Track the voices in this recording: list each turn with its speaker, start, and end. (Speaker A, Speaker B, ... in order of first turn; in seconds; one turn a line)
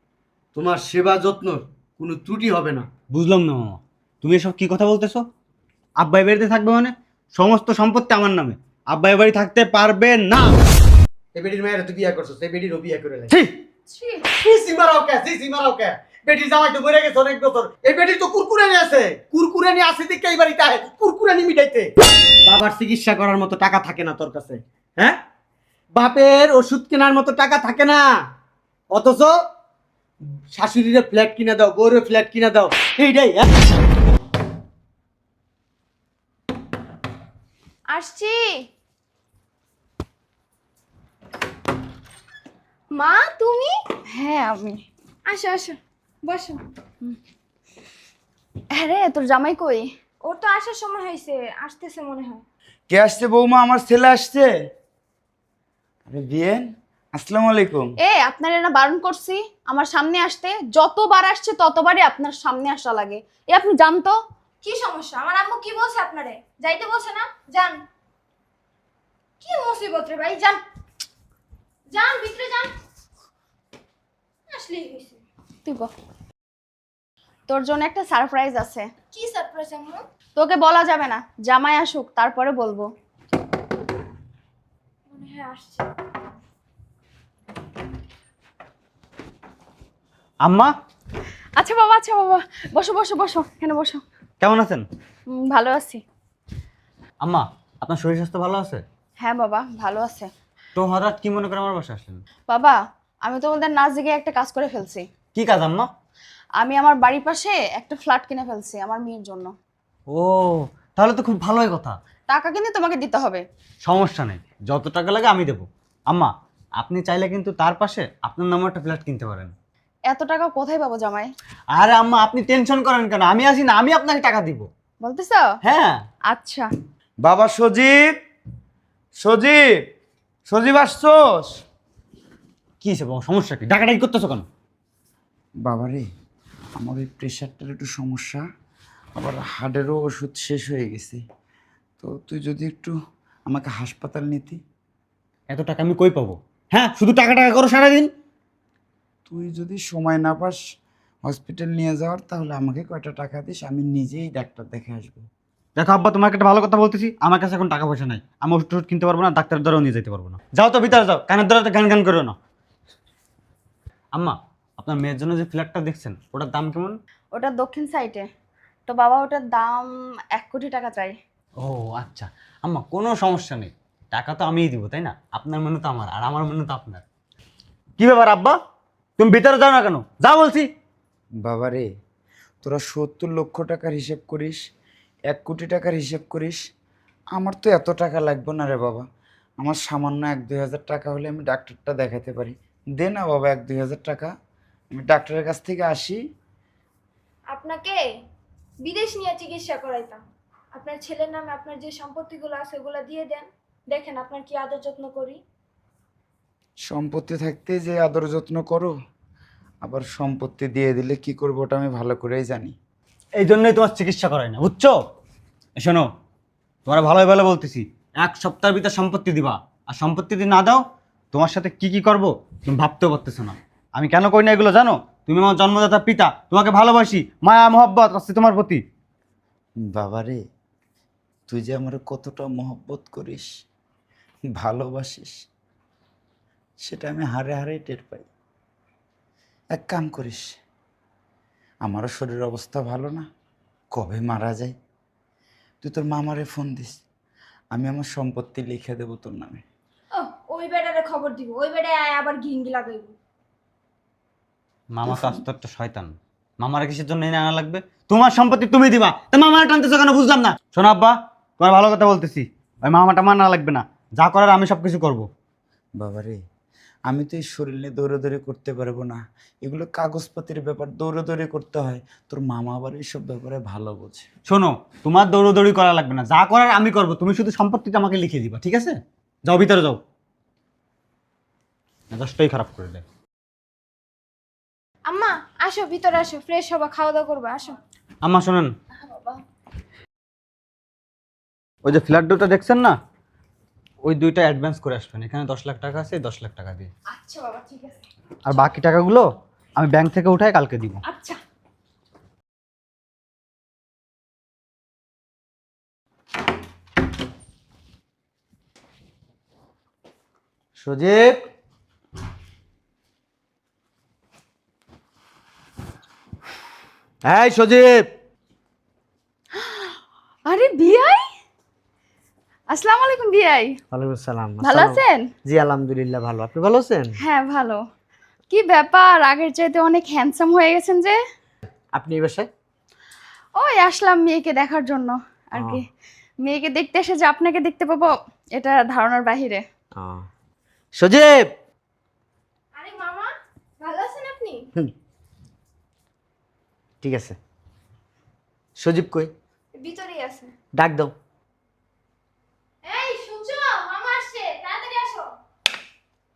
Speaker A: 0.5-2.9
Speaker B: 3.1-5.2
Speaker B: 6.0-10.6
Speaker A: 11.3-13.3
Speaker C: 13.9-14.2
Speaker A: 14.3-21.9
Speaker A: 22.4-25.2
Speaker A: 25.9-28.0
Speaker A: 28.9-29.4
Speaker A: 30.5-33.5
Speaker D: 37.9-38.6
Speaker D: 42.9-43.7
Speaker C: 44.1-44.9
Speaker D: 45.2-46.6
Speaker C: 48.7-49.9
Speaker D: 50.2-52.4
Speaker E: 52.9-54.5
Speaker E: 56.1-57.9
Speaker C: 58.0-64.2
Speaker D: 64.6-67.8
Speaker D: 69.4-70.6
Speaker D: 71.9-72.7
Speaker D: 74.5-75.2
Speaker C: 75.6-75.9
Speaker C: 77.5-78.9
Speaker D: 79.1-80.0
Speaker C: 80.3-82.9
Speaker D: 85.1-85.9
Speaker B: 90.4-90.7
Speaker C: 91.5-94.0
Speaker B: 94.4-94.8
Speaker C: 95.3-96.0
Speaker B: 97.2-98.8
Speaker C: 99.2-100.3
Speaker B: 100.8-102.2
Speaker C: 102.5-105.0
Speaker B: 105.3-105.9
Speaker C: 106.6-109.5
Speaker B: 110.1-112.0
Speaker C: 112.3-113.4
Speaker B: 113.8-119.5
Speaker C: 120.1-121.3
Speaker B: 121.7-124.7
Speaker C: 125.0-125.5
Speaker B: 125.6-126.0
Speaker C: 126.3-126.7
Speaker E: 127.2-128.1
Speaker E: 129.2-129.7
Speaker E: 130.5-131.5
Speaker B: 132.8-134.4
Speaker E: 135.6-136.0
Speaker E: 136.8-138.4
Speaker E: 139.2-141.2
Speaker E: 142.0-142.9
Speaker E: 143.4-144.6
Speaker B: 145.5-148.1
Speaker E: 149.3-150.6
Speaker E: 151.2-155.2
Speaker B: 155.8-162.3
Speaker B: 164.1-167.0
Speaker C: 167.3-168.2
Speaker C: 168.9-171.2
Speaker B: 171.6-177.0
Speaker B: 178.0-178.6
Speaker B: 179.2-180.7
Speaker E: 181.4-181.8
Speaker E: 182.6-184.6
Speaker E: 185.3-186.6
Speaker E: 187.3-189.0
Speaker E: 189.6-194.3
Speaker E: 194.9-196.2
Speaker D: 197.5-198.0
Speaker D: 198.8-200.2
Speaker D: 200.7-205.4
Speaker E: 206.8-208.9
Speaker E: 209.8-212.7
Speaker B: 213.4-214.9
Speaker B: 215.8-216.1
Speaker B: 216.8-228.8
Speaker E: 229.9-230.4
Speaker E: 231.5-233.5
Speaker E: 234.5-235.3
Speaker E: 236.8-238.3
Speaker E: 239.7-240.5
Speaker E: 241.8-243.2
Speaker E: 243.9-244.7
Speaker E: 245.8-246.9
Speaker E: 247.7-249.6
Speaker D: 250.1-253.1
Speaker B: 254.9-265.2
Speaker E: 266.0-266.4
Speaker E: 267.1-274.2
Speaker B: 274.4-280.0
Speaker B: 282.1-283.0
Speaker D: 285.1-287.8
Speaker B: 288.2-288.7
Speaker D: 289.1-289.4
Speaker B: 291.8-292.9
Speaker B: 294.0-296.9
Speaker D: 297.1-298.6
Speaker B: 298.4-301.0
Speaker D: 301.0-301.4
Speaker A: 310.8-311.4
Speaker A: 317.2-318.1
Speaker C: 319.6-319.9
Speaker C: 320.4-321.2
Speaker C: 322.7-323.8
Speaker A: 323.9-327.1
Speaker C: 324.6-325.3
Speaker C: 327.2-327.8
Speaker C: 328.5-331.2
Speaker A: 331.9-332.5
Speaker C: 333.6-335.8
Speaker A: 335.5-335.8
Speaker C: 336.4-339.6
Speaker A: 339.9-340.2
Speaker A: 340.9-341.4
Speaker D: 342.8-344.6
Speaker A: 347.0-347.4
Speaker A: 348.8-349.3
Speaker D: 349.8-350.5
Speaker A: 350.8-351.1
Speaker D: 352.8-355.3